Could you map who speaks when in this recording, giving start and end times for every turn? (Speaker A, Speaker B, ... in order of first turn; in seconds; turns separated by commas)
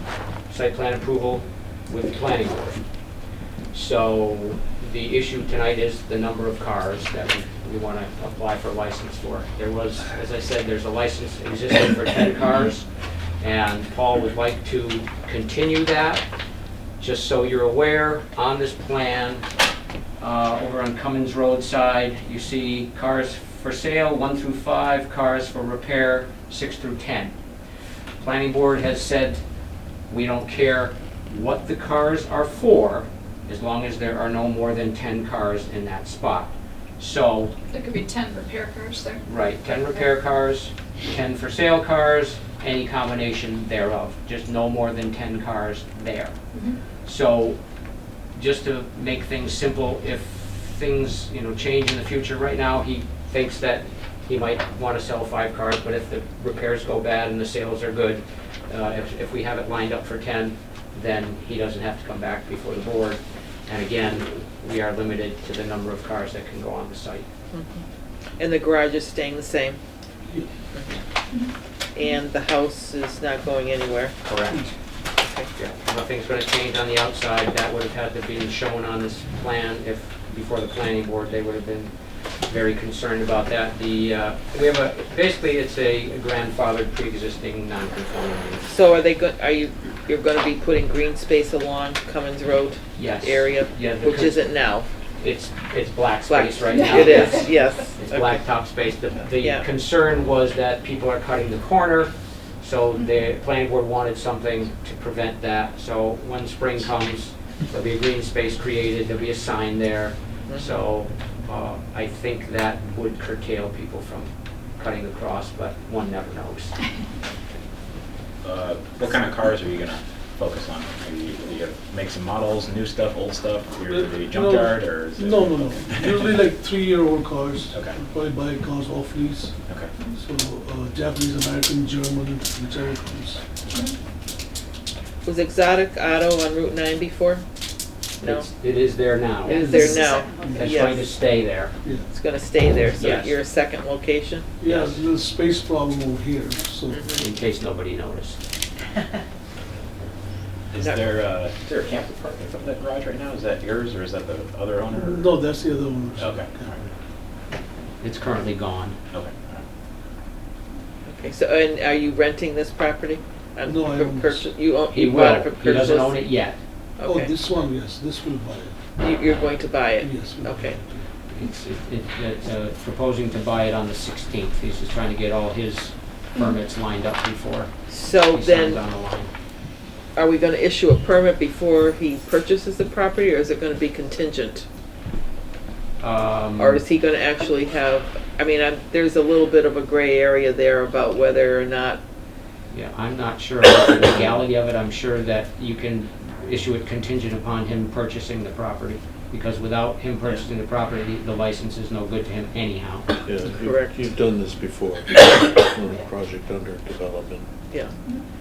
Speaker A: 0.5-2.8, Speaker A: 3.7-12.9, Speaker A: 13.4-16.3, Speaker A: 17.0-19.5, Speaker A: 20.2-27.3, Speaker A: 28.2-29.4, Speaker A: 30.1-37.5, Speaker B: 37.7-40.0, Speaker A: 39.2-46.4, Speaker A: 47.0-47.6, Speaker A: 48.3-67.3, Speaker C: 67.5-67.8, Speaker C: 68.4-69.8, Speaker C: 70.7-71.0, Speaker C: 71.9-74.2, Speaker A: 74.2-74.7, Speaker C: 75.2-75.5, Speaker A: 75.5-81.9, Speaker A: 82.5-88.7, Speaker C: 88.7-94.9, Speaker A: 93.0-94.5, Speaker A: 95.2-116.9, Speaker C: 96.3-98.4, Speaker B: 96.8-97.3, Speaker C: 99.4-99.7, Speaker C: 110.5-110.8, Speaker D: 118.4-126.2, Speaker E: 123.9-129.6, Speaker D: 127.7-128.0, Speaker D: 129.7-129.9, Speaker E: 130.2-133.5, Speaker C: 135.2-137.4, Speaker C: 138.2-138.5, Speaker A: 138.2-141.8, Speaker C: 139.4-141.1, Speaker E: 139.5-140.9, Speaker B: 139.8-140.5, Speaker E: 141.8-142.1, Speaker C: 142.1-144.5, Speaker A: 143.0-143.4, Speaker E: 144.6-147.0, Speaker A: 144.7-145.0, Speaker C: 146.9-147.3, Speaker A: 147.2-148.4, Speaker D: 150.7-155.4, Speaker C: 150.8-151.1, Speaker E: 155.0-156.9, Speaker D: 156.2-156.8, Speaker A: 158.0-159.0, Speaker D: 159.1-159.6, Speaker C: 161.1-166.3, Speaker E: 163.7-164.5, Speaker A: 164.9-166.6, Speaker C: 167.0-167.3, Speaker E: 167.0-168.8, Speaker C: 169.0-170.8, Speaker E: 170.0-171.1, Speaker A: 171.3-179.3, Speaker C: 177.9-178.8, Speaker C: 180.2-184.7, Speaker A: 186.0-186.8, Speaker C: 186.6-192.0, Speaker A: 192.7-203.1, Speaker F: 203.2-207.5, Speaker C: 203.5-203.9, Speaker C: 207.7-208.0